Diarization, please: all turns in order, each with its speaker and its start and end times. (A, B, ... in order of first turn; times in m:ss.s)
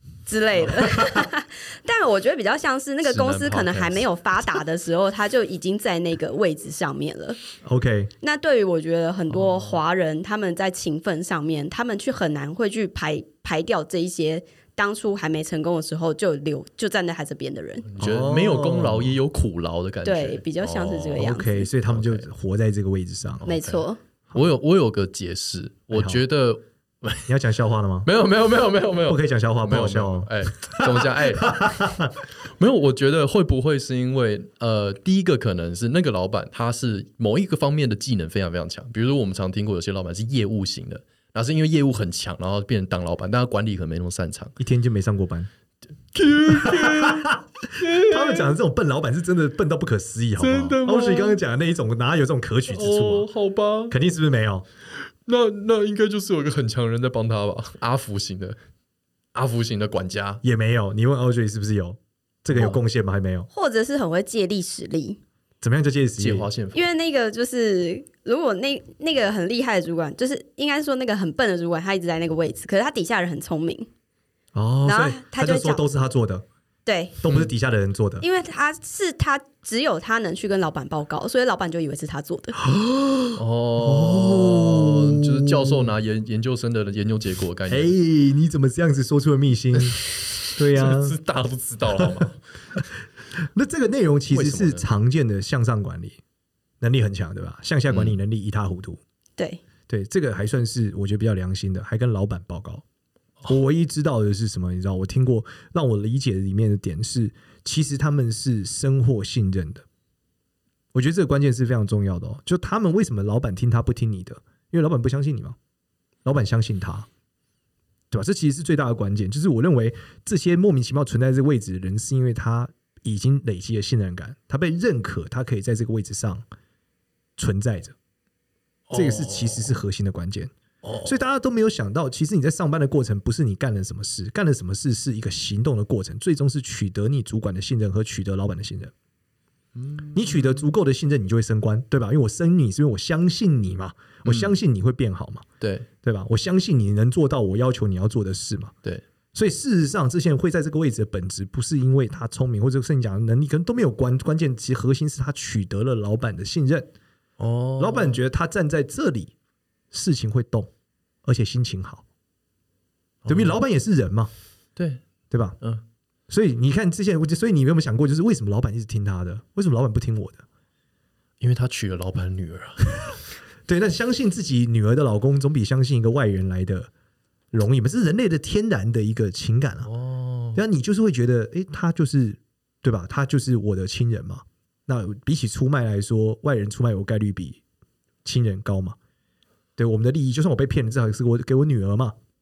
0:00.3-0:07.4 A
0:00.6-0:01.3 B
0:03.0-0:04.0 C
0:07.6-0:08.1 B
0:08.2-0:17.8 A
0:09.4-0:09.8 C
0:17.8-0:21.3 C
0:18.0-0:19.2 B
0:20.0-0:21.7 A
0:21.1-0:23.5 B
0:21.8-0:22.2 C
0:23.4-0:23.8 C
0:23.4-0:24.0 A
0:24.3-0:27.3 C
0:25.9-0:26.2 B
0:27.3-0:28.1 B
0:28.0-0:31.7 C
0:29.0-0:32.1 B
0:32.6-0:44.6 C
0:44.6-0:45.5 B
0:46.1-0:48.5 C
0:46.5-0:53.3 B
0:50.4-0:51.4 C
0:52.7-0:53.9 C
0:53.9-0:54.6 B
0:55.2-0:58.6 C
0:59.3-1:00.4 C
1:00.4-1:03.5 B
1:02.5-1:02.8 C
1:03.5-1:05.2 A
1:05.6-1:06.5 B
1:06.2-1:06.9 C
1:06.7-1:13.9 A
1:14.5-1:16.4 B
1:14.8-1:15.8 A
1:16.8-1:17.2 A
1:17.2-1:18.2 B
1:18.2-1:22.6 A
1:22.6-1:25.9 B
1:23.4-1:27.9 C
1:27.7-1:30.0 B
1:30.6-1:31.2 B
1:30.6-1:32.4 C
1:33.5-1:36.2 B
1:34.3-1:34.8 C
1:36.8-1:39.0 B
1:37.9-1:38.2 C
1:39.9-1:42.8 B
1:43.5-1:49.8 B
1:50.9-1:55.6 B
1:56.2-1:57.1 B
1:58.1-2:06.4 B
2:07.4-2:08.0 B
2:08.9-2:09.8 C
2:08.9-2:10.5 B
2:10.8-2:11.2 C
2:11.0-2:18.9 B
2:19.7-2:20.6 C
2:20.1-2:25.4 B
2:24.2-2:24.5 C
2:25.6-2:25.9 C
2:26.0-2:28.7 B
2:29.3-2:36.9 B
2:37.4-2:38.2 C
2:37.8-2:39.3 B
2:39.9-2:40.7 B
2:41.2-2:42.0 B
2:43.2-2:43.6 C
2:43.3-2:44.3 B
2:44.8-2:45.0 C
2:45.3-2:45.6 B
2:46.3-2:50.4 B
2:51.4-2:53.1 C
2:53.7-2:56.9 B
2:57.5-2:59.9 B
2:59.8-3:00.6 C
3:00.5-3:07.6 B
3:08.2-3:09.0 B
3:09.8-3:12.1 B